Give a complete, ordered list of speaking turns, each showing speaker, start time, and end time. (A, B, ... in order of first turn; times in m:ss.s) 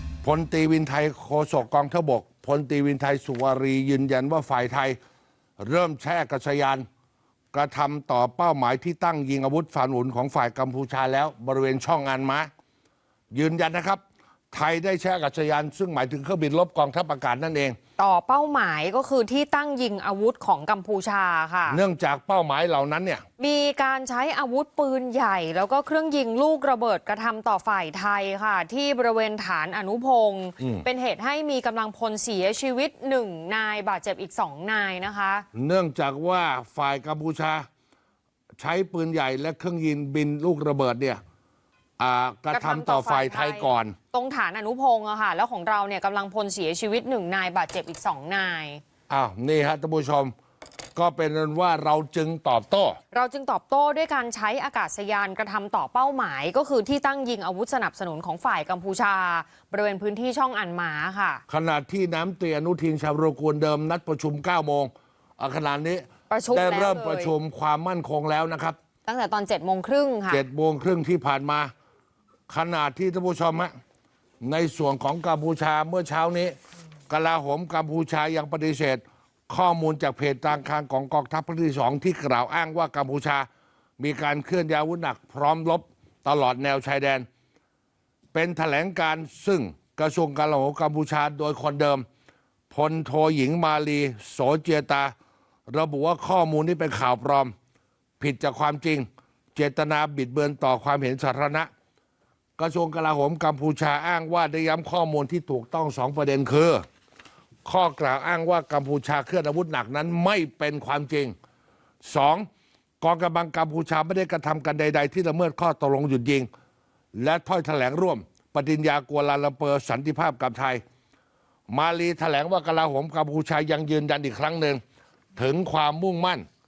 0:00.2-0:05.0 A
0:05.6-0:06.9 A
0:07.5-0:12.5 A
0:13.3-0:14.0 A
0:14.5-0:17.8 A
0:18.0-0:21.8 B
0:21.7-0:23.2 A
0:23.4-0:35.5 B
0:30.6-0:30.9 A
0:35.5-0:37.7 A
0:38.6-0:41.2 A
0:42.0-0:44.0 A
0:42.5-0:48.8 B
0:49.1-0:50.3 A
0:51.0-0:53.0 A
0:53.1-1:01.4 B
1:01.5-1:08.8 A
1:06.3-1:07.3 B
1:09.0-1:10.4 B
1:10.3-1:11.7 A
1:12.5-1:13.7 A
1:14.4-1:16.6 A
1:17.1-1:23.5 A
1:24.0-1:27.3 A
1:28.3-1:32.0 A
1:32.7-1:35.1 A
1:35.7-1:37.5 A
1:38.2-1:41.7 A
1:42.6-1:46.8 A
1:47.6-1:51.4 A
1:52.0-1:52.5 A
1:53.0-1:56.5 A
1:57.2-2:00.8 A
2:01.7-2:04.8 A
2:05.4-2:06.4 A